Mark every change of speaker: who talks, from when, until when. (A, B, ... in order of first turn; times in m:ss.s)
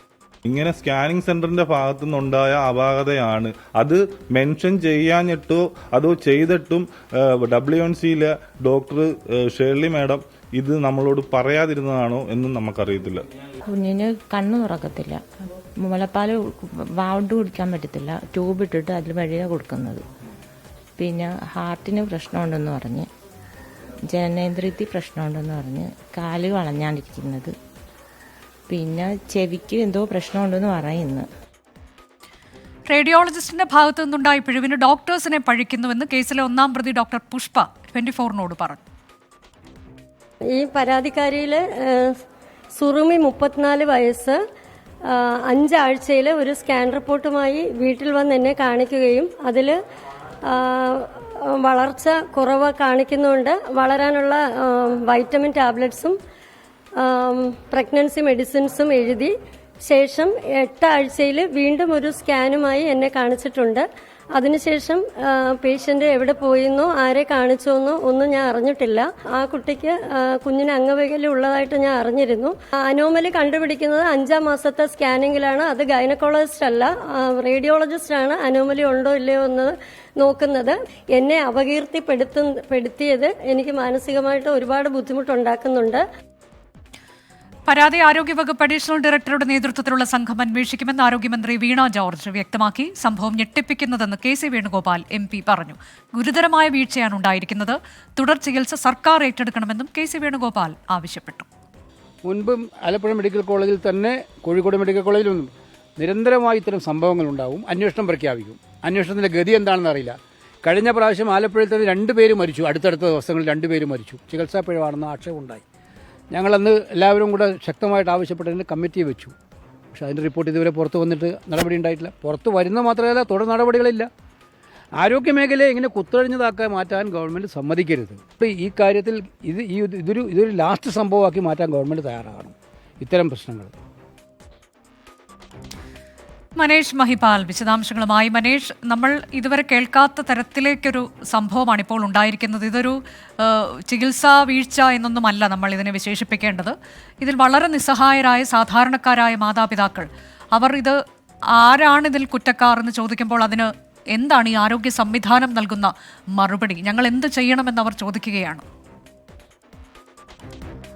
0:00.4-0:13.2 A
0:13.7-0:20.0 B
0:21.0-0:23.1 B
0:24.1-0:27.5 B
0:28.7-0:31.3 B
0:32.9-0:38.8 C
0:40.5-0:42.2 D
0:42.8-0:44.4 D
0:45.0-0:49.8 D
0:50.4-0:56.2 D
0:57.0-1:26.0 D
1:27.7-1:41.5 C
1:42.2-1:55.6 E
1:56.3-1:59.3 E
1:59.9-2:04.1 E
2:05.0-2:13.7 E
2:16.6-2:31.0 C
2:31.6-2:38.6 C